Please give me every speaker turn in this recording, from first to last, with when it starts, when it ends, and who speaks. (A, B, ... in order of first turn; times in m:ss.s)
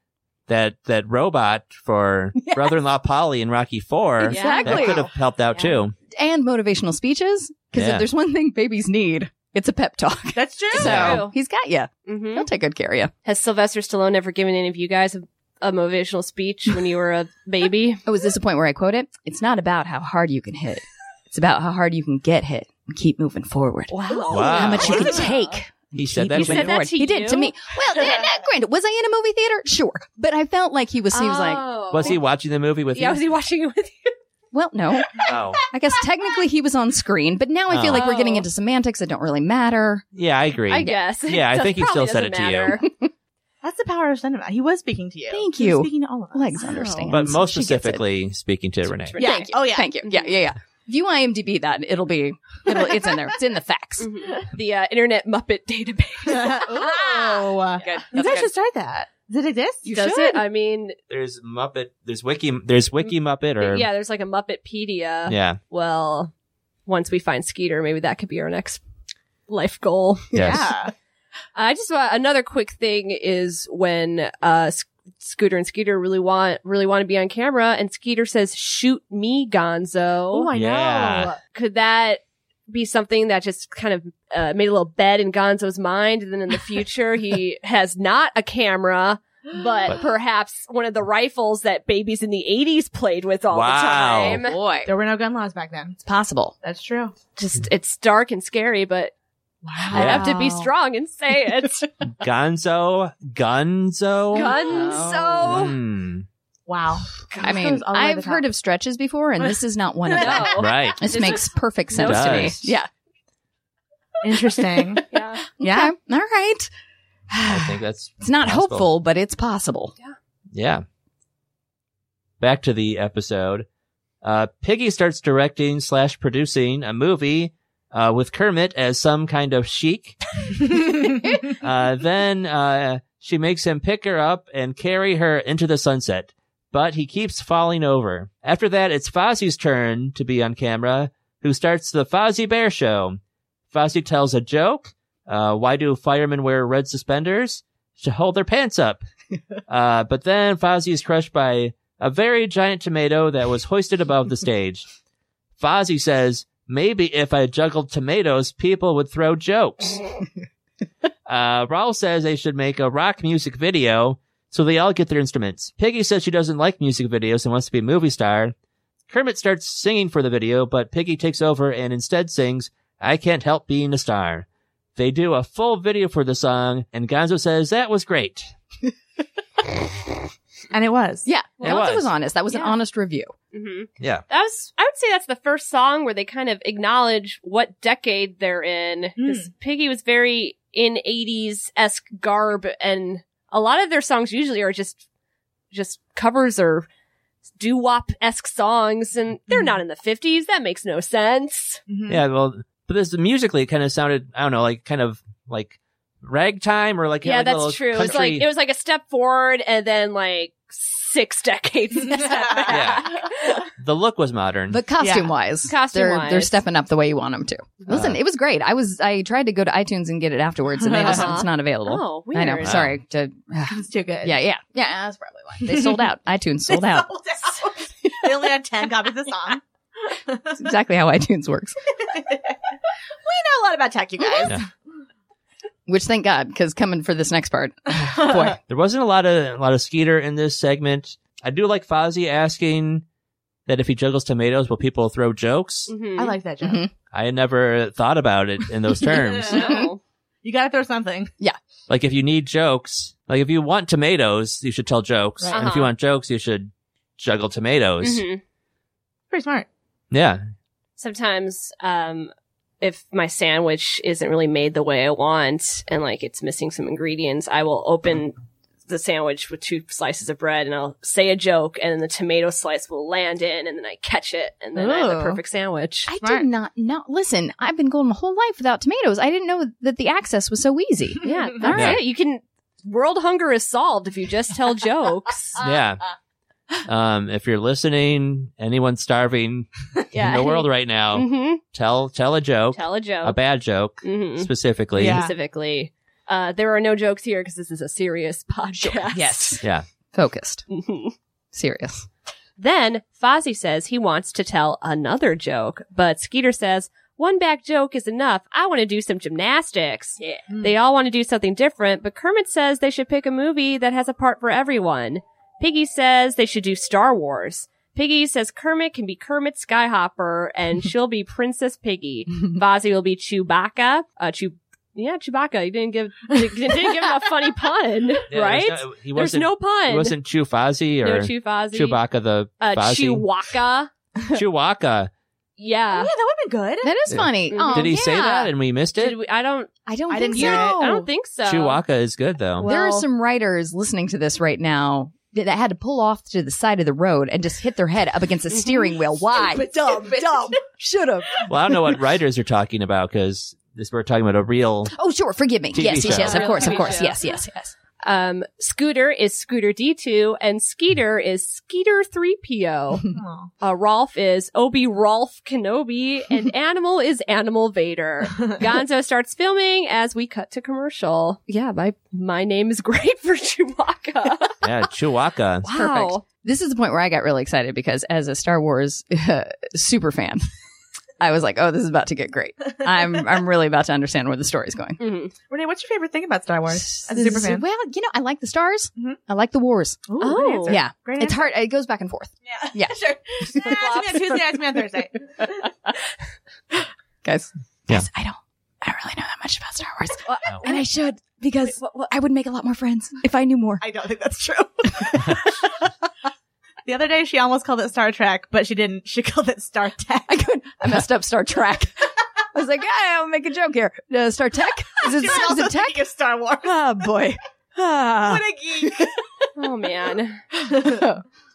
0:00.5-0:05.9 A
0:02.4-0:02.8 B
0:04.2-0:05.1 B
0:04.2-0:05.7 C
0:06.1-0:13.1 B
0:07.7-0:08.0 A
0:10.3-0:11.2 D
0:10.7-0:11.3 C
0:10.8-0:11.2 A
0:12.0-0:12.5 C
0:13.2-0:18.0 C
0:18.0-0:31.6 B
0:23.9-0:25.5 C
0:24.3-0:25.1 A
0:24.8-0:25.2 D
0:25.9-0:26.8 A
0:26.3-0:28.2 C
0:31.1-0:32.2 C
0:31.9-0:33.2 A
0:32.9-0:34.1 C
0:34.5-0:40.0 B
0:35.2-0:35.6 A
0:37.7-0:38.1 A
0:37.9-0:38.4 C
0:40.1-0:42.8 A
0:40.7-0:42.9 C
0:42.8-0:43.1 B
0:43.6-0:47.0 D
0:45.3-0:48.0 B
0:46.7-0:47.0 C
0:47.1-0:49.2 A
0:49.0-0:50.3 C
0:49.2-0:49.9 D
0:49.2-0:54.1 B
0:54.0-0:58.0 C
0:56.3-1:00.1 D
0:56.8-0:58.5 B
0:59.8-1:00.4 B
0:59.9-1:01.0 C
1:01.1-1:03.9 A
1:03.0-1:06.3 C
1:05.3-1:05.6 A
1:06.8-1:08.8 C
1:09.5-1:10.3 C
1:10.3-1:10.6 A
1:10.4-1:10.9 D
1:11.5-1:20.5 C
1:20.3-1:21.4 D
1:20.5-1:21.3 A
1:21.5-1:34.6 C
1:33.5-1:34.4 A
1:34.2-1:34.9 B
1:34.8-1:36.0 D
1:36.0-1:36.5 B
1:36.6-1:37.1 D
1:37.4-1:39.1 C
1:39.6-1:40.5 D
1:39.9-1:41.9 C
1:39.9-1:40.7 B
1:39.9-1:40.2 A
1:42.2-1:44.5 A
1:44.3-1:45.8 C
1:44.3-1:45.6 B
1:45.4-1:46.2 A
1:46.7-1:48.4 D
1:47.4-1:52.9 B
1:50.1-1:52.6 C
1:50.6-1:51.0 A
1:51.9-1:52.7 A
1:54.2-1:55.0 D
1:54.7-1:55.0 B
1:55.1-1:55.4 C
1:55.5-1:56.7 B
1:55.6-1:55.9 D
1:57.3-1:59.9 B
1:57.4-1:58.9 A
2:00.5-2:00.8 A
2:02.4-2:03.6 A
2:04.2-2:10.7 A
2:11.6-2:23.2 A
2:23.7-2:29.0 A
2:29.7-2:34.9 A
2:35.6-2:40.0 A
2:41.3-2:48.5 A
2:49.1-2:58.5 A
3:00.7-3:01.3 D
3:01.2-3:03.3 B
3:01.6-3:02.1 A
3:02.5-3:02.8 C
3:03.5-3:15.0 C
3:09.2-3:09.5 D
3:15.7-3:16.9 C
3:17.6-3:21.8 C
3:21.9-3:22.2 D
3:22.1-3:28.5 A
3:27.2-3:33.6 C
3:32.7-3:33.1 A
3:33.8-3:34.8 A
3:34.7-3:47.1 B
3:35.0-3:35.3 D
3:35.7-3:36.6 C
3:37.9-3:38.2 A
3:40.8-3:41.3 D
3:41.0-3:42.8 C
3:42.6-3:42.9 A
3:43.7-3:44.4 D
3:45.6-3:46.0 D
3:46.7-3:49.6 D
3:48.1-3:48.6 B
3:50.3-3:50.6 D
3:50.5-3:51.8 B
3:52.1-3:52.5 D
3:53.2-3:54.7 D
3:54.2-3:54.6 B
3:55.9-3:58.6 B
3:58.7-4:03.0 A
4:03.7-4:05.9 A
4:05.9-4:06.4 C
4:06.2-4:06.8 D
4:06.6-4:06.9 B
4:07.1-4:09.8 A
4:09.5-4:09.9 B
4:09.5-4:10.0 C
4:10.4-4:11.3 D
4:11.9-4:18.2 A
4:15.5-4:15.9 C
4:18.0-4:18.4 C
4:19.3-4:19.7 D
4:20.1-4:20.4 A
4:21.0-4:28.3 C
4:28.9-4:36.1 C
4:34.7-4:35.4 D
4:36.1-4:42.0 B
4:36.2-4:36.5 D
4:41.2-4:45.6 C
4:41.7-4:42.0 A
4:45.6-4:46.0 A
4:46.8-4:55.2 A
4:50.1-4:51.6 C
4:52.7-4:53.4 C
4:54.0-4:59.6 C
4:55.0-4:55.3 D
4:58.8-5:00.6 B
5:00.7-5:01.1 C
5:01.5-5:02.1 B
5:02.6-5:30.2 C
5:10.5-5:10.7 D
5:28.3-5:33.2 A
5:31.0-5:32.0 C
5:32.6-5:33.9 C
5:34.3-5:35.1 A
5:35.6-5:36.1 C
5:35.9-5:37.0 D
5:36.8-5:38.5 B
5:37.1-5:39.2 A
5:37.5-5:38.0 C
5:39.0-5:39.7 C
5:39.8-5:41.0 B
5:40.1-5:41.0 D
5:40.3-5:41.8 C
5:41.4-5:42.7 A
5:42.6-5:43.0 C
5:42.6-5:51.7 B
5:49.3-5:50.6 D
5:51.4-5:54.9 A
5:54.9-5:57.7 B
5:55.7-5:56.5 A
5:56.0-5:57.2 C
5:58.0-6:03.1 C
6:03.1-6:03.5 D
6:03.6-6:14.6 C
6:14.6-6:15.7 A
6:15.6-6:20.4 B
6:15.6-6:16.2 C
6:21.2-6:25.0 B
6:25.0-6:25.3 C
6:25.5-6:27.6 D
6:26.8-6:33.8 B
6:30.1-6:31.5 D
6:30.2-6:30.8 C
6:32.6-6:35.6 D
6:33.5-6:34.6 C
6:37.2-6:43.8 B
6:40.4-6:40.8 C
6:43.8-6:45.7 D
6:44.9-6:45.4 B
6:46.8-6:50.4 D
6:50.3-6:56.0 B
6:55.0-6:56.8 D
6:56.6-6:59.2 B
6:58.2-6:59.1 D
6:59.6-7:00.4 C
7:00.6-7:01.2 B
7:00.8-7:01.0 D